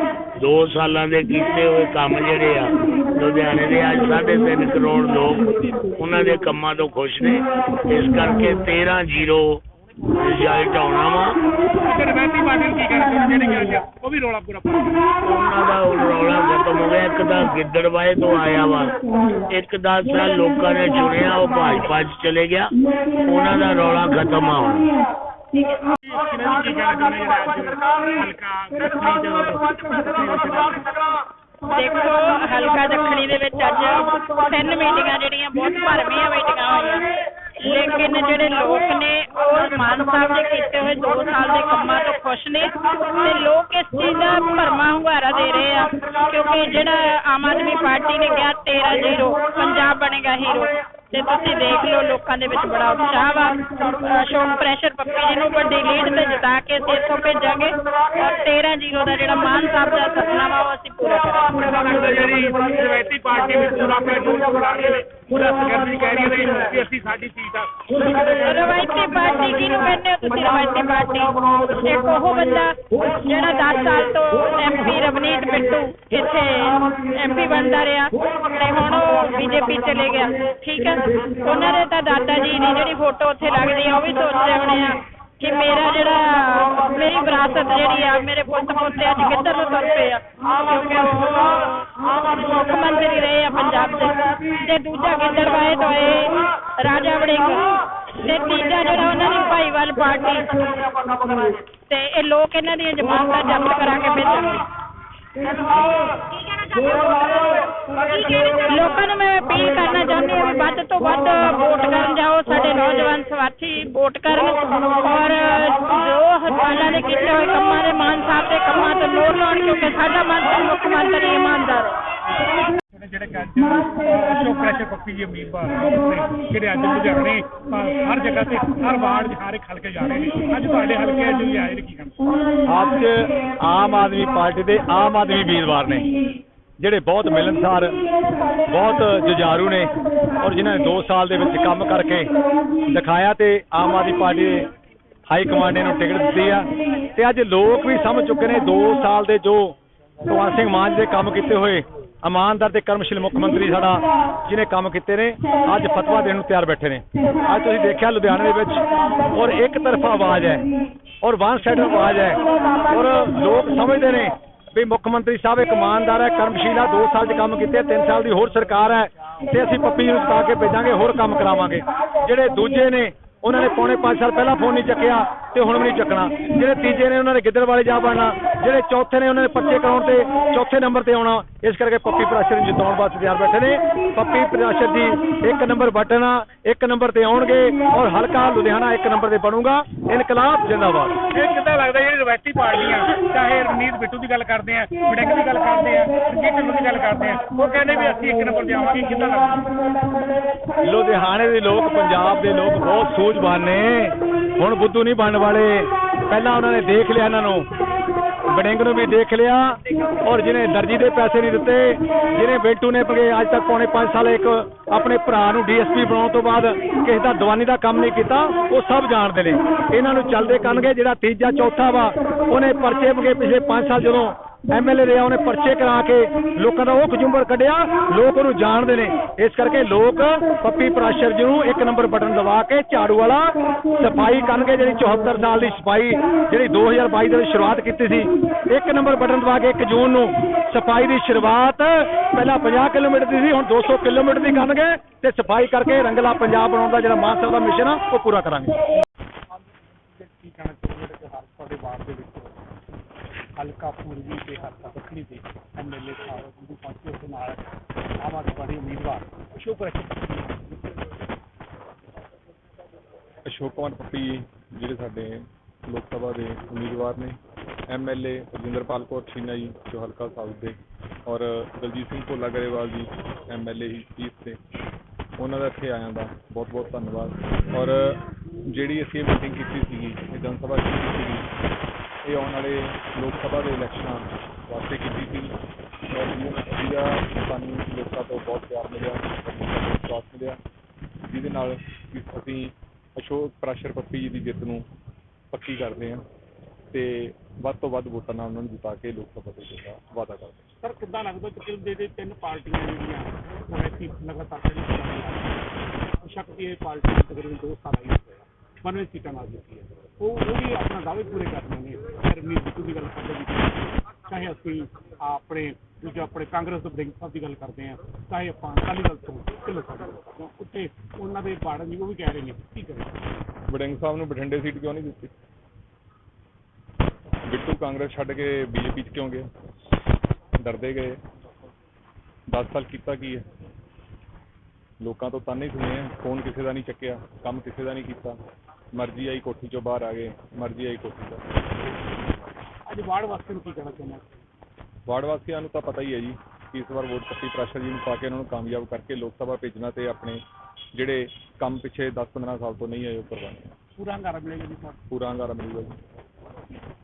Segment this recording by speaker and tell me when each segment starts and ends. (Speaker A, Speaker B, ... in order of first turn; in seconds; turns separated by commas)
Speaker A: 0.4-5.5, Speaker A: 6.0-9.6, Speaker A: 10.2-11.3, Speaker B: 11.9-15.1, Speaker A: 15.3-18.9, Speaker A: 19.5-22.7, Speaker A: 23.3-24.9, Speaker B: 26.1-30.8, Speaker C: 31.7-37.1, Speaker C: 37.6-61.6, Speaker B: 61.5-67.8, Speaker C: 68.0-97.7, Speaker C: 98.2-100.5, Speaker C: 101.9-104.6, Speaker C: 108.1-122.0, Speaker B: 122.9-132.2, Speaker D: 132.7-136.2, Speaker D: 136.8-138.0, Speaker D: 138.7-142.3, Speaker D: 142.9-144.7, Speaker D: 145.3-149.8, Speaker D: 150.3-160.6, Speaker D: 161.2-191.2, Speaker B: 191.3-199.7, Speaker D: 200.8-207.7, Speaker D: 208.5-249.0, Speaker B: 250.2-252.6, Speaker B: 253.6-257.6, Speaker B: 258.2-260.7, Speaker E: 263.5-267.4, Speaker E: 267.9-274.6, Speaker E: 275.4-278.2, Speaker E: 278.7-281.5, Speaker E: 282.3-285.5, Speaker E: 286.1-290.6, Speaker E: 291.3-294.9, Speaker E: 295.5-296.2, Speaker E: 296.9-300.6, Speaker B: 300.8-305.6, Speaker B: 306.2-323.1, Speaker E: 323.7-325.3, Speaker E: 327.5-329.5, Speaker E: 330.6-331.2, Speaker E: 332.5-333.4, Speaker E: 335.0-338.4, Speaker E: 339.0-341.4, Speaker B: 342.9-344.3, Speaker E: 345.1-350.4, Speaker E: 350.9-353.7, Speaker B: 354.0-355.0, Speaker E: 355.1-356.0